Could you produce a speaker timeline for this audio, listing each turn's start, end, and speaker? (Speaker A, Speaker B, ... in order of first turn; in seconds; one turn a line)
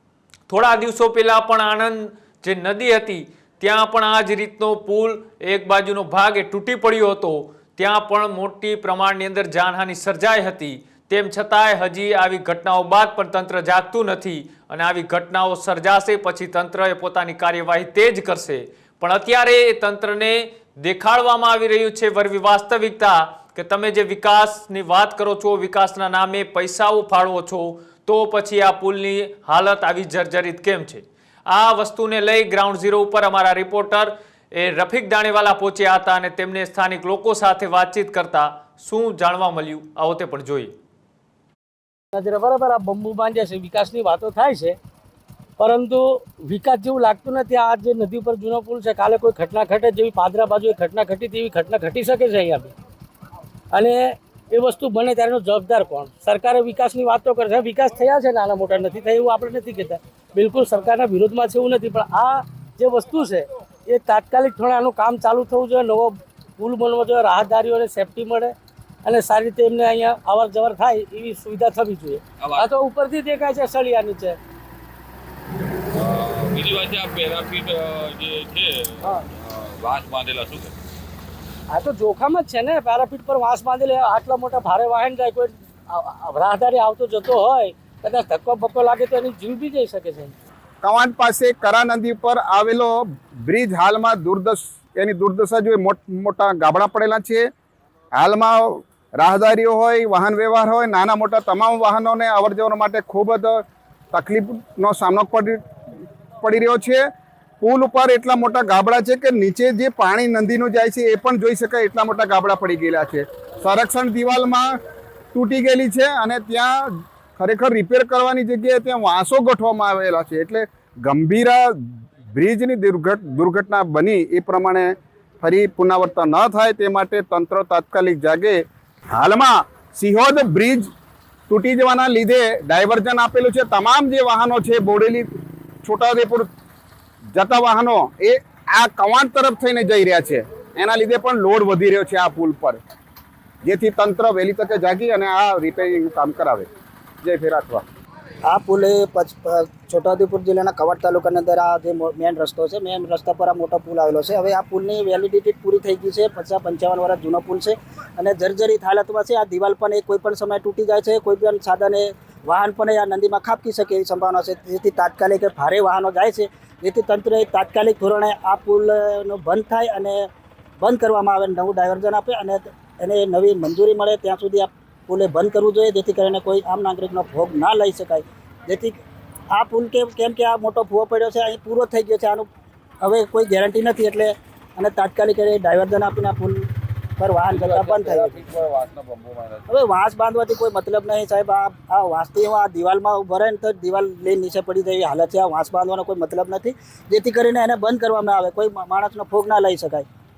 Speaker A: 0.5-40.7
Speaker B: 42.1-44.8
Speaker B: 45.6-52.7
Speaker B: 53.7-68.5
Speaker B: 69.0-74.4
Speaker C: 72.4-72.7
Speaker C: 75.9-80.7
Speaker B: 81.7-90.3
Speaker D: 90.8-97.5
Speaker D: 98.2-103.6
Speaker D: 104.1-105.6
Speaker D: 106.4-107.0
Speaker D: 107.6-114.7
Speaker D: 115.3-121.6
Speaker D: 122.3-128.6
Speaker D: 129.2-130.9
Speaker D: 131.5-135.3
Speaker D: 135.8-136.5
Speaker D: 137.3-142.8
Speaker D: 143.7-146.7
Speaker D: 147.2-147.8
Speaker E: 148.5-170.3
Speaker E: 170.8-179.0
Speaker E: 179.5-182.5
Speaker E: 183.0-186.7
Speaker E: 187.2-188.4
Speaker C: 187.5-189.7
Speaker E: 189.7-200.1